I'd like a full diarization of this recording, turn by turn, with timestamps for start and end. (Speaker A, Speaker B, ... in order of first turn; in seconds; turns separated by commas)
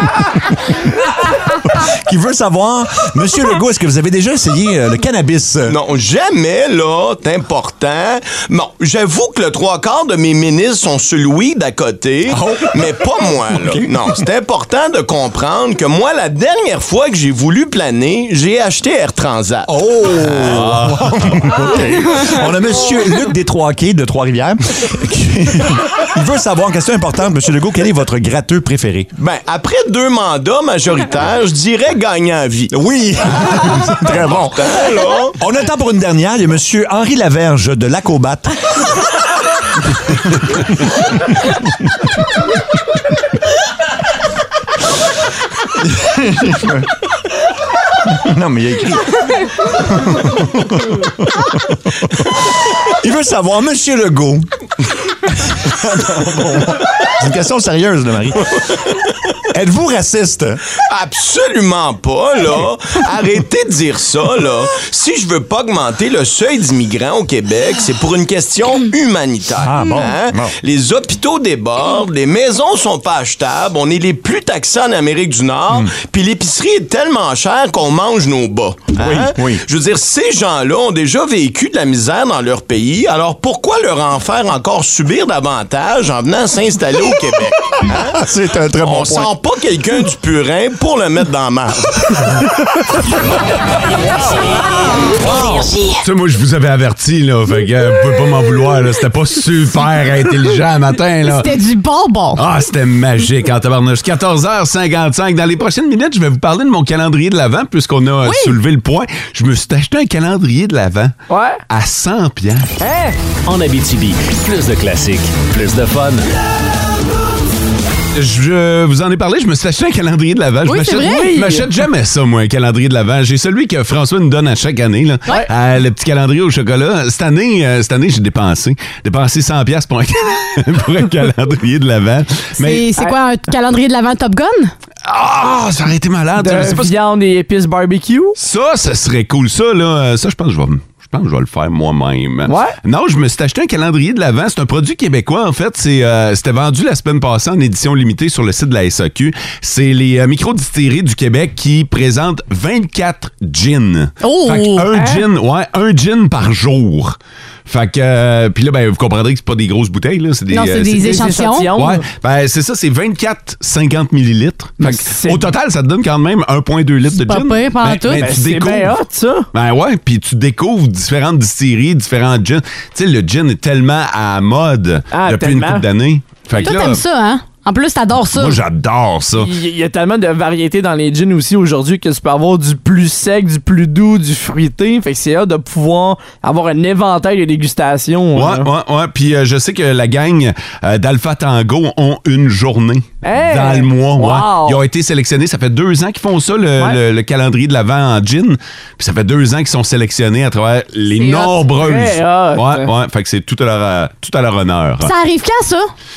Speaker A: 1.7-5.8, Speaker B: 5.7-20.0, Speaker A: 12.3-14.2, Speaker A: 19.7-29.1, Speaker C: 20.4-21.2, Speaker B: 29.2-32.8, Speaker A: 32.7-38.5, Speaker B: 33.5-35.4, Speaker A: 46.0-46.8, Speaker A: 48.2-51.8, Speaker A: 53.0-54.5, Speaker A: 55.5-58.6, Speaker A: 59.5-60.6, Speaker B: 60.9-92.1, Speaker A: 69.6-70.5, Speaker A: 79.0-79.6, Speaker A: 88.0-89.3, Speaker D: 95.1-96.0, Speaker C: 96.0-101.6, Speaker D: 101.3-102.4, Speaker C: 102.3-111.2, Speaker D: 108.2-108.5, Speaker E: 111.3-111.6, Speaker C: 111.7-112.8, Speaker E: 112.8-113.2, Speaker F: 113.5-116.2, Speaker C: 118.1-132.9, Speaker D: 120.7-121.3, Speaker E: 121.0-121.7, Speaker D: 132.6-134.7, Speaker C: 135.0-136.9, Speaker E: 136.4-138.4, Speaker C: 138.4-161.2, Speaker E: 142.5-142.8, Speaker D: 154.2-154.9, Speaker E: 154.9-155.2, Speaker D: 160.5-161.7, Speaker E: 160.9-162.1, Speaker C: 161.8-169.0, Speaker E: 164.8-165.4, Speaker D: 167.1-168.3, Speaker E: 168.1-169.5, Speaker C: 169.5-177.0, Speaker E: 175.1-175.8, Speaker D: 176.6-178.6, Speaker C: 178.3-179.5, Speaker E: 179.4-188.7, Speaker C: 188.3-205.1, Speaker E: 193.2-194.8, Speaker D: 201.2-201.6, Speaker E: 201.7-202.9, Speaker D: 205.0-205.9